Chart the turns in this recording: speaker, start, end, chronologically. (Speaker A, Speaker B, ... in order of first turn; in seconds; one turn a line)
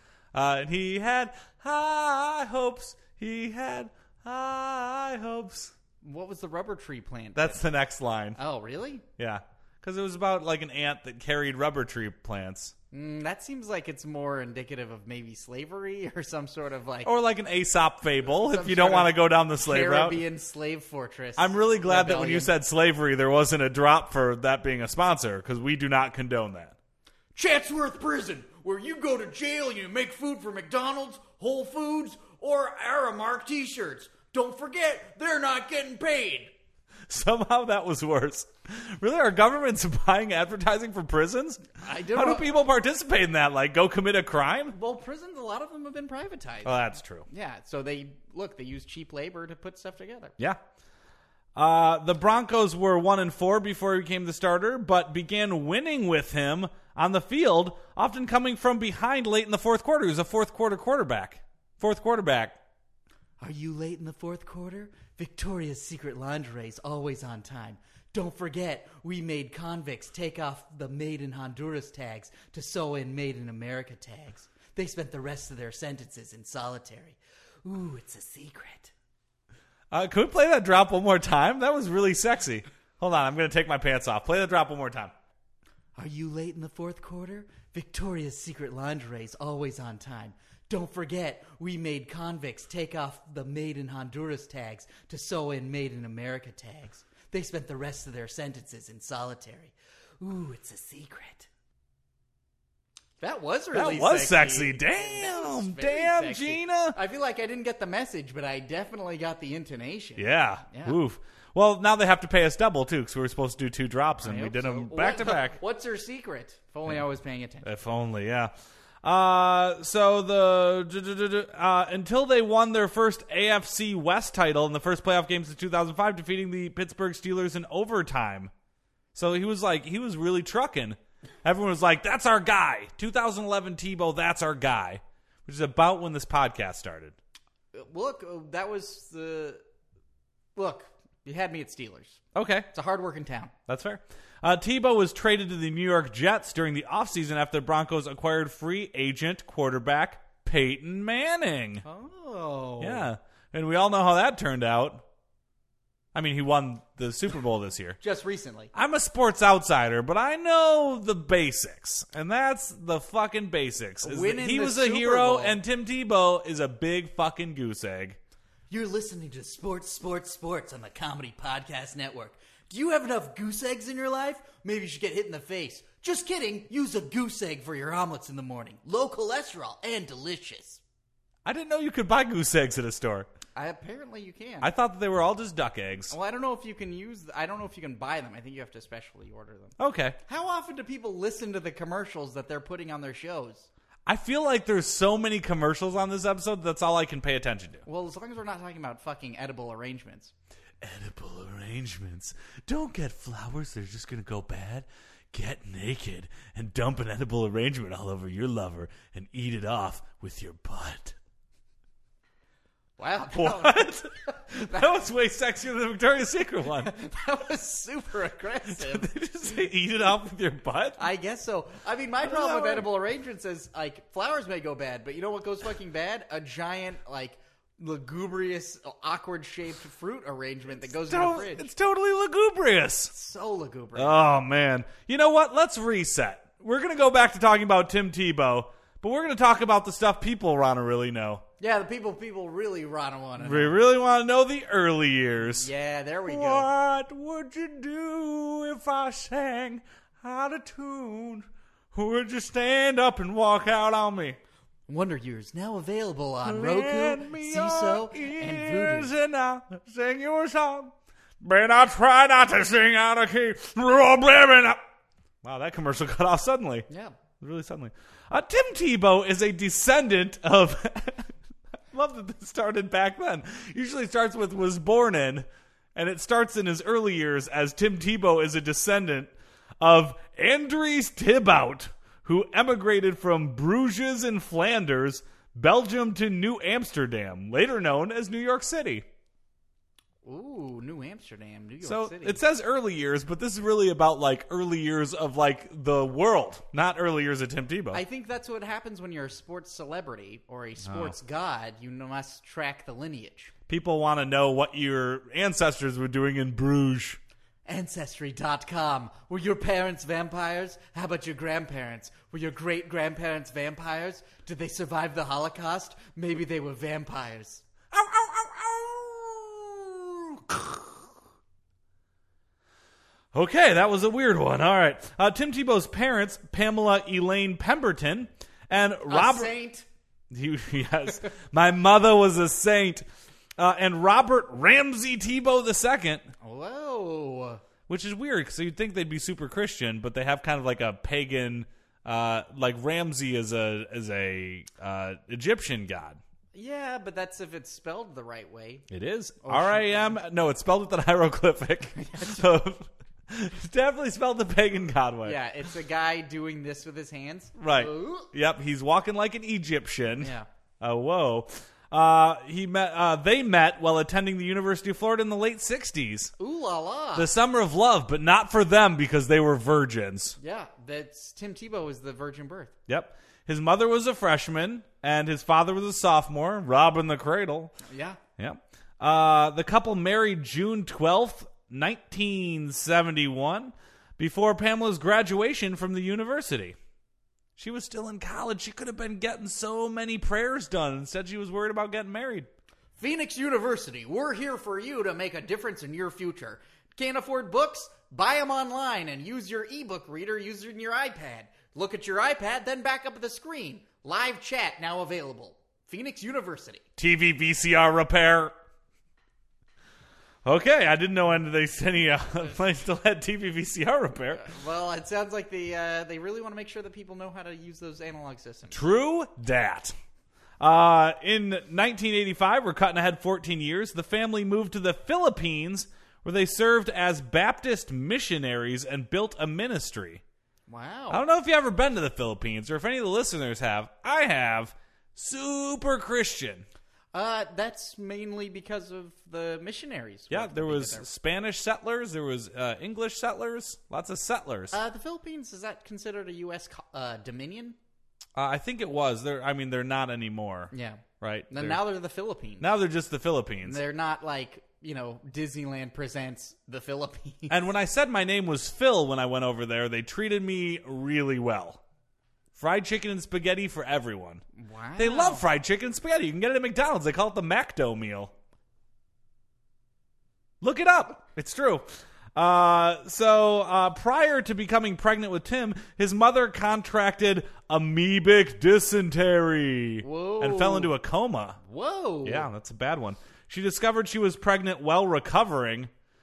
Speaker A: 0.3-5.7
Speaker B: 6.0-7.6
Speaker A: 7.3-8.4
Speaker B: 8.4-9.1
Speaker A: 9.2-12.7
Speaker B: 12.9-17.1
Speaker A: 17.1-20.2
Speaker B: 18.2-22.5
Speaker A: 21.4-26.8
Speaker B: 27.4-36.5
Speaker A: 37.1-44.8
Speaker B: 41.8-42.5
Speaker B: 44.7-50.4
Speaker A: 46.6-47.3
Speaker A: 51.6-62.6
Speaker B: 63.4-78.9
Speaker A: 79.9-85.1
Speaker B: 86.0-101.5
Speaker B: 103.2-111.0
Speaker A: 103.7-107.0
Speaker A: 110.2-115.6
Speaker B: 114.2-117.7
Speaker A: 117.6-118.5
Speaker A: 119.0-128.5
Speaker A: 129.2-137.2
Speaker B: 137.7-139.6
Speaker B: 140.6-143.5
Speaker A: 142.3-142.7
Speaker A: 143.7-151.8
Speaker B: 151.8-153.1
Speaker A: 152.8-155.0
Speaker A: 156.2-158.0
Speaker B: 158.0-158.7
Speaker A: 158.7-168.2
Speaker B: 164.0-165.6
Speaker B: 168.7-180.8
Speaker A: 181.4-183.3
Speaker B: 183.6-184.7
Speaker A: 184.6-186.2
Speaker B: 186.1-193.7
Speaker A: 189.8-190.2
Speaker A: 194.1-197.8
Speaker B: 197.9-200.3
Speaker A: 200.8-211.2
Speaker B: 213.0-213.9
Speaker A: 213.3-216.9
Speaker B: 216.8-219.1
Speaker A: 218.7-221.0
Speaker B: 221.0-231.7
Speaker A: 222.2-222.9
Speaker A: 230.9-233.1
Speaker B: 233.1-234.2
Speaker A: 234.0-241.4
Speaker B: 241.6-243.8
Speaker A: 243.4-245.7
Speaker B: 245.6-246.7
Speaker A: 246.3-254.4
Speaker B: 254.9-259.1
Speaker A: 256.4-264.8
Speaker A: 265.4-266.9
Speaker B: 266.9-267.2
Speaker A: 267.4-271.3
Speaker A: 271.9-289.1
Speaker B: 290.2-292.4
Speaker A: 291.8-298.0
Speaker B: 297.9-303.5
Speaker A: 300.8-301.2
Speaker A: 303.7-307.2
Speaker B: 307.7-317.6
Speaker A: 317.9-321.0
Speaker A: 323.3-329.5
Speaker B: 329.1-329.9
Speaker A: 330.3-333.0
Speaker A: 333.6-336.3
Speaker B: 336.4-337.6
Speaker A: 337.9-346.2
Speaker B: 346.5-348.9
Speaker A: 348.9-355.4
Speaker B: 349.4-350.2
Speaker B: 352.0-352.5
Speaker B: 355.2-358.3
Speaker A: 357.6-366.3
Speaker B: 360.2-360.5
Speaker B: 366.4-367.3
Speaker A: 367.1-370.4
Speaker B: 370.4-372.7
Speaker A: 372.9-377.8
Speaker B: 377.9-378.2
Speaker A: 378.4-386.8
Speaker A: 387.6-392.5
Speaker B: 393.0-406.8
Speaker A: 407.0-408.5
Speaker A: 410.4-414.5
Speaker B: 414.3-418.8
Speaker A: 418.7-419.9
Speaker A: 420.6-430.2
Speaker B: 430.7-431.2
Speaker A: 431.1-436.7
Speaker B: 437.1-441.1
Speaker A: 440.3-444.8
Speaker B: 444.7-447.8
Speaker A: 448.4-451.8
Speaker B: 450.7-452.7
Speaker A: 452.6-453.8
Speaker B: 453.6-457.5
Speaker A: 457.5-461.8
Speaker A: 462.6-464.4
Speaker B: 464.6-465.5
Speaker A: 465.0-468.3
Speaker A: 470.6-481.6
Speaker B: 480.0-480.9
Speaker B: 481.6-482.5
Speaker A: 482.2-485.9